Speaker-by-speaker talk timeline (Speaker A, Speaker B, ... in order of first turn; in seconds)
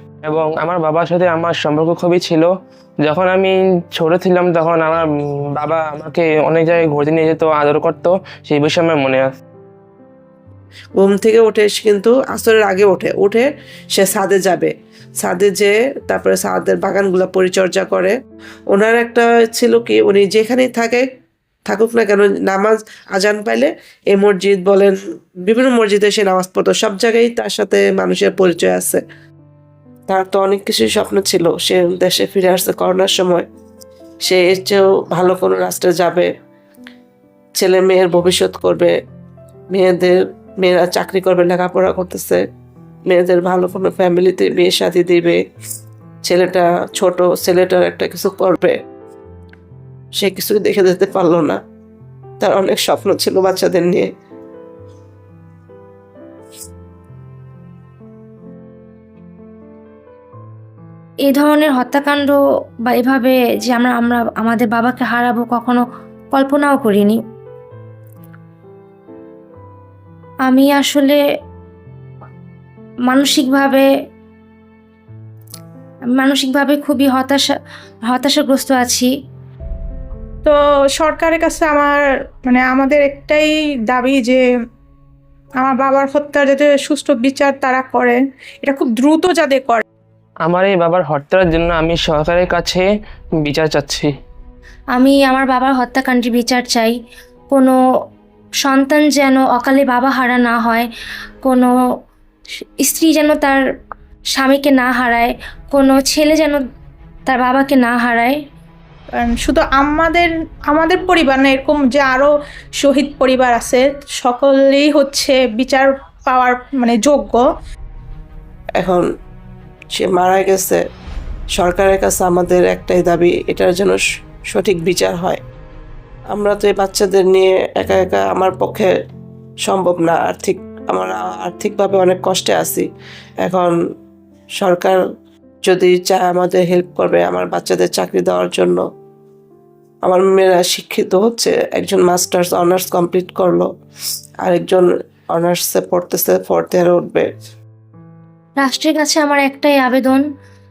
Speaker A: 0.2-9.3, 90.4-94.1
Speaker B: 11.0-18.1, 18.7-21.1, 21.7-29.0, 30.1-33.5, 34.2-36.3, 37.6-39.0, 39.7-42.4, 43.1-45.4, 46.2-48.8, 50.2-51.6, 52.4-54.1, 118.8-119.0, 119.9-120.8, 121.5-125.4, 126.3-128.9, 129.6-132.9, 133.4-133.7, 134.6-135.0, 135.6-138.8, 140.0-143.7, 144.4-147.3
Speaker C: 61.2-65.8, 66.3-67.2, 70.5-71.2, 73.1-73.8, 76.1-77.5, 78.1-79.1, 94.9-96.9, 98.6-100.9, 101.4-101.7, 102.8-103.6, 104.3-106.6, 107.2-108.4, 148.6-150.2
Speaker D: 80.4-84.4, 85.6-89.8, 109.1-117.4